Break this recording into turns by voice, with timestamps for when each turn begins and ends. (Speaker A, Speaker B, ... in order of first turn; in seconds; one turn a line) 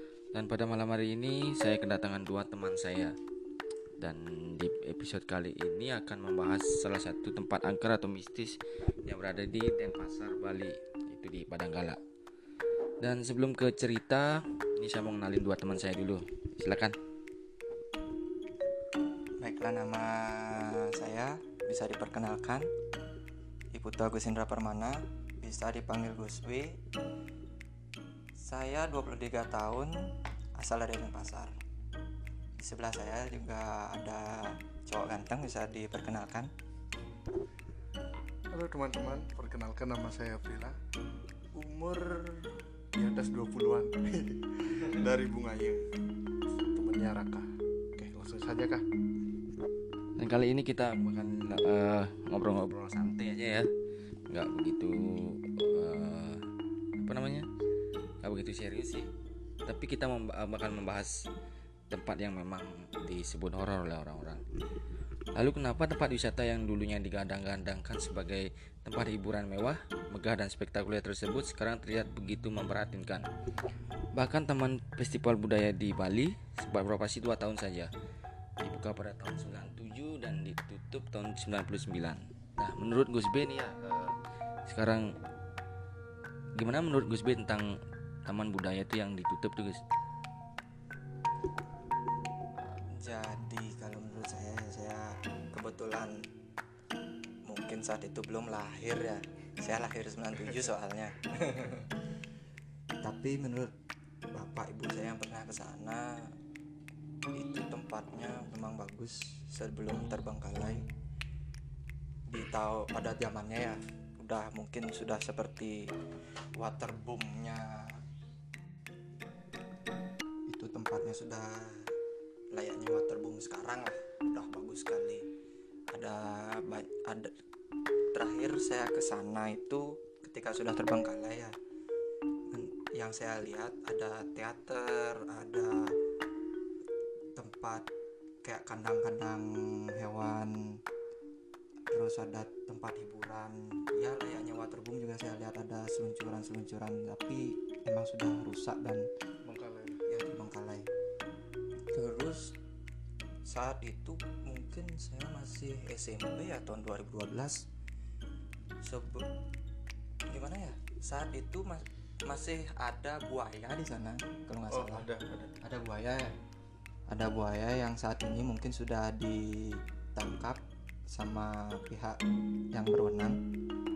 Speaker A: 0.3-3.1
Speaker A: 4.0-12.0
Speaker A: 13.0-17.0
Speaker B: 19.4-22.7
Speaker B: 23.7-26.8
Speaker B: 28.4-29.9
Speaker B: 30.6-31.5
Speaker B: 32.6-36.5
Speaker C: 38.5-40.8
Speaker C: 41.5-45.8
Speaker C: 46.7-48.9
Speaker A: 50.2-53.7
Speaker A: 54.3-56.4
Speaker A: 57.0-57.5
Speaker A: 58.2-59.1
Speaker A: 59.7-61.3
Speaker A: 61.9-64.4
Speaker A: 65.3-73.2
Speaker A: 74.1-77.9
Speaker A: 78.6-84.2
Speaker A: 84.7-85.1
Speaker A: 86.6-87.7
Speaker A: 88.2-89.8
Speaker B: 92.7-96.2
Speaker B: 97.5-101.9
Speaker B: 103.0-103.7
Speaker B: 104.3-106.1
Speaker B: 107.3-110.9
Speaker B: 112.3-115.8
Speaker B: 116.6-118.0
Speaker B: 120.5-121.9
Speaker B: 122.5-125.2
Speaker B: 125.9-127.3
Speaker B: 128.1-131.5
Speaker B: 132.5-135.9
Speaker B: 137.4-137.9
Speaker B: 138.4-140.6
Speaker B: 141.9-149.1
Speaker C: 149.4-150.0
Speaker B: 150.1-150.9
Speaker B: 151.9-152.6
Speaker B: 153.5-157.7
Speaker B: 158.8-159.3
Speaker B: 160.3-165.1
Speaker C: 164.7-165.6
Speaker B: 165.6-166.3
Speaker B: 167.1-172.2
Speaker B: 172.7-173.4